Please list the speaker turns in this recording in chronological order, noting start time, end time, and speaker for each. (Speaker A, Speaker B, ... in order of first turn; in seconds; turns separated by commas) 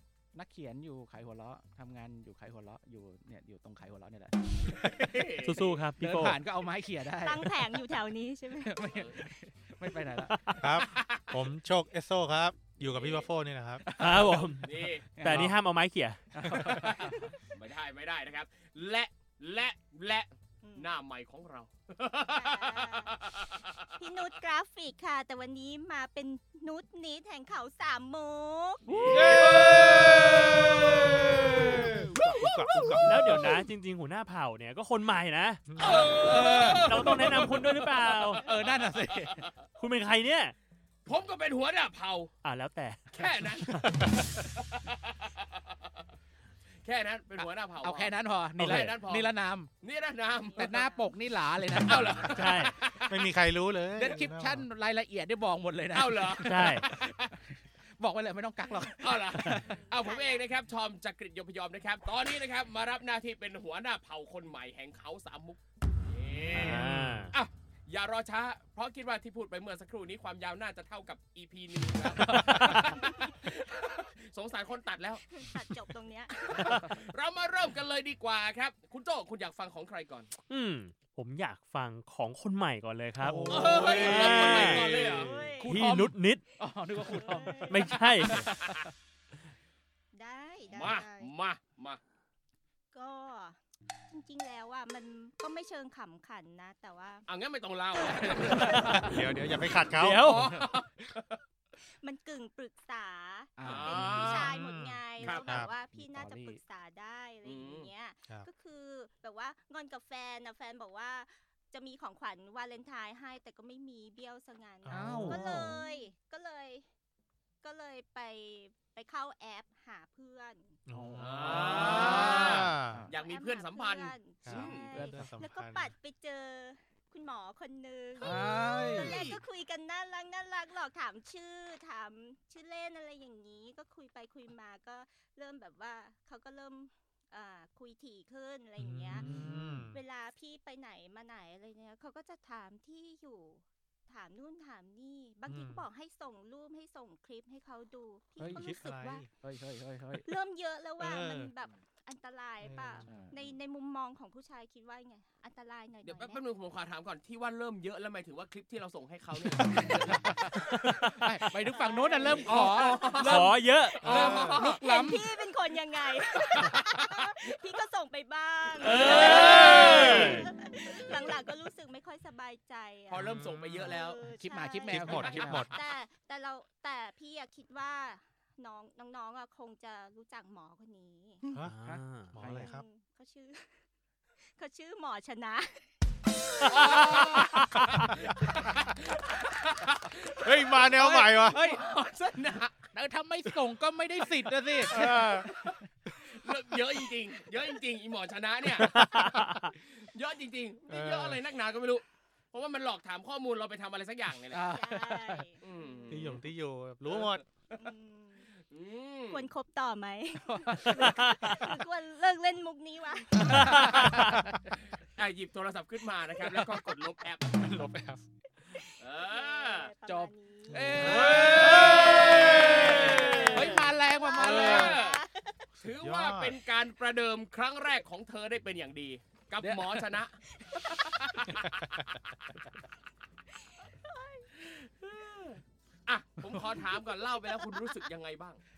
Speaker A: 0.3-4.4, Speaker B: 4.6-5.8, Speaker C: 5.4-6.4, Speaker A: 6.0-7.8, Speaker D: 7.2-8.8, Speaker A: 8.6-10.4, Speaker B: 8.8-9.2, Speaker C: 10.2-10.6, Speaker E: 10.6-13.8, Speaker B: 10.7-11.4, Speaker B: 12.8-13.3, Speaker A: 13.8-14.6, Speaker C: 14.0-14.6, Speaker B: 14.6-15.2, Speaker A: 15.1-15.5, Speaker C: 15.2-16.2, Speaker E: 15.3-15.6, Speaker A: 16.3-17.3, Speaker E: 16.5-16.9, Speaker D: 17.0-17.3, Speaker B: 17.5-24.3, Speaker D: 20.6-21.0, Speaker D: 22.3-23.1, Speaker D: 24.0-29.4, Speaker B: 28.9-31.8, Speaker E: 29.0-33.2, Speaker C: 33.0-35.8, Speaker E: 35.7-36.1, Speaker B: 35.8-39.5, Speaker A: 35.9-37.5, Speaker C: 36.7-38.4, Speaker A: 38.4-39.5, Speaker C: 39.8-40.5, Speaker B: 41.0-42.3, Speaker C: 42.4-43.1, Speaker B: 43.1-45.6, Speaker C: 43.7-44.0, Speaker B: 46.8-50.9, Speaker A: 47.8-49.7, Speaker E: 48.6-48.9, Speaker D: 50.4-51.2, Speaker A: 50.5-52.7, Speaker B: 51.9-53.2, Speaker C: 52.3-52.7, Speaker E: 53.1-54.7, Speaker A: 53.9-59.8, Speaker B: 55.9-57.2, Speaker C: 56.5-56.8, Speaker B: 59.0-75.2, Speaker D: 59.6-60.6, Speaker E: 66.5-67.2, Speaker C: 66.6-67.3, Speaker A: 72.2-73.0, Speaker C: 72.3-72.9, Speaker D: 75.3-76.9, Speaker B: 76.5-80.3, Speaker C: 80.5-85.1, Speaker E: 83.2-85.5, Speaker A: 83.3-83.9, Speaker B: 83.5-85.3, Speaker D: 85.1-85.8, Speaker A: 85.6-88.9, Speaker C: 85.7-86.4, Speaker D: 87.0-88.0, Speaker C: 87.8-88.5, Speaker B: 88.4-88.8, Speaker D: 90.1-91.3, Speaker B: 90.7-92.0, Speaker D: 92.9-93.6, Speaker D: 94.1-97.3, Speaker B: 97.3-99.1, Speaker D: 98.0-99.2, Speaker E: 98.6-100.3, Speaker B: 99.9-101.4, Speaker C: 100.0-100.4, Speaker D: 101.8-116.8, Speaker A: 103.5-104.3, Speaker B: 103.6-104.5, Speaker E: 104.0-105.7, Speaker B: 105.2-105.5, Speaker A: 105.4-106.6, Speaker B: 107.4-107.9, Speaker E: 114.8-115.7, Speaker A: 114.9-115.8, Speaker D: 117.6-120.8, Speaker E: 120.9-123.0, Speaker A: 120.9-123.2, Speaker B: 121.2-124.9, Speaker D: 123.1-149.3, Speaker E: 124.4-125.9, Speaker A: 124.9-125.2, Speaker A: 128.2-129.2, Speaker B: 128.9-129.4, Speaker E: 138.8-140.0, Speaker A: 139.2-139.6, Speaker E: 145.5-145.8, Speaker A: 148.4-148.7, Speaker E: 148.4-149.3, Speaker A: 149.4-150.2, Speaker D: 150.2-156.4, Speaker E: 151.0-151.5, Speaker E: 152.6-153.2, Speaker A: 153.0-153.3, Speaker B: 156.0-160.4, Speaker A: 159.8-160.6, Speaker C: 160.6-161.4, Speaker A: 161.1-165.3, Speaker D: 161.6-162.9, Speaker B: 162.4-164.8, Speaker C: 163.3-164.0, Speaker E: 164.0-164.6, Speaker D: 164.6-181.5, Speaker B: 168.8-170.4, Speaker C: 169.4-170.3, Speaker B: 173.1-174.2, Speaker E: 173.2-173.9, Speaker A: 174.2-175.7, Speaker E: 174.9-175.8, Speaker B: 175.1-175.5, Speaker A: 181.4-182.7, Speaker E: 181.5-181.8, Speaker C: 181.6-182.4, Speaker E: 182.3-182.8, Speaker D: 182.4-183.7, Speaker D: 184.6-185.8, Speaker B: 186.6-192.9, Speaker A: 186.7-187.4, Speaker E: 190.4-191.6, Speaker A: 190.9-191.8, Speaker A: 192.9-195.9, Speaker E: 194.9-195.5, Speaker B: 194.9-195.3, Speaker B: 196.2-204.7, Speaker C: 199.0-199.7, Speaker E: 200.9-201.4, Speaker A: 204.5-205.4, Speaker D: 204.6-206.2, Speaker B: 205.6-206.4, Speaker E: 206.1-207.4, Speaker B: 207.1-207.4, Speaker D: 207.7-208.5, Speaker B: 208.6-209.5, Speaker D: 209.3-213.8, Speaker A: 210.6-210.9, Speaker A: 213.3-214.4, Speaker C: 213.5-214.4, Speaker B: 213.8-214.2, Speaker B: 214.8-217.6, Speaker E: 217.6-218.2, Speaker B: 219.0-219.9, Speaker D: 219.1-225.6, Speaker A: 220.0-225.0, Speaker E: 220.7-221.9, Speaker B: 220.9-223.7, Speaker B: 224.3-225.2, Speaker B: 225.8-230.3, Speaker E: 225.8-226.6, Speaker A: 229.6-230.1, Speaker D: 230.6-231.0, Speaker B: 230.9-232.2, Speaker D: 233.6-234.5, Speaker B: 234.6-238.6, Speaker D: 236.8-238.1